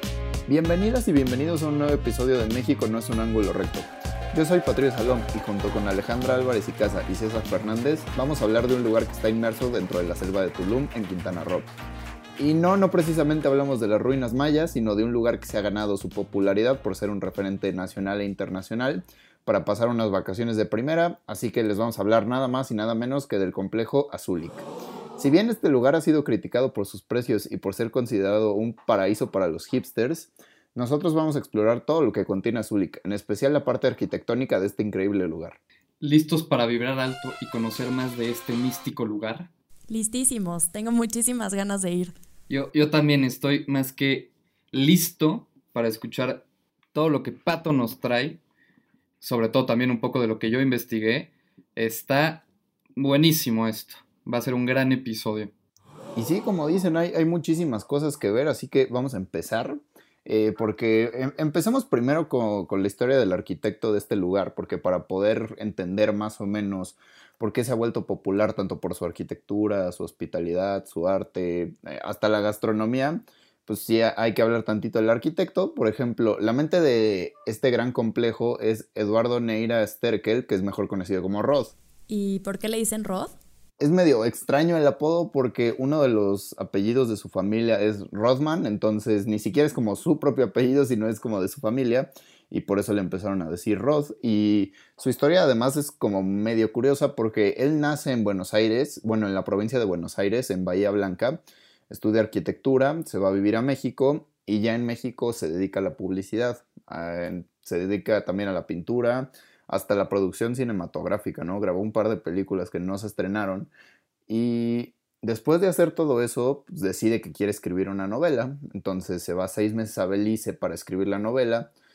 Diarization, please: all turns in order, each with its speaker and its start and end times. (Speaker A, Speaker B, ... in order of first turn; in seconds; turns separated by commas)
Speaker A: 0.5-11.7, Speaker A: 12.4-24.6, Speaker A: 25.2-35.6, Speaker B: 36.0-39.5, Speaker C: 39.9-42.1, Speaker B: 42.5-48.4, Speaker B: 49.2-52.4, Speaker B: 53.0-55.5, Speaker A: 56.1-81.7, Speaker C: 82.1-83.3, Speaker A: 83.8-113.7, Speaker A: 114.3-121.7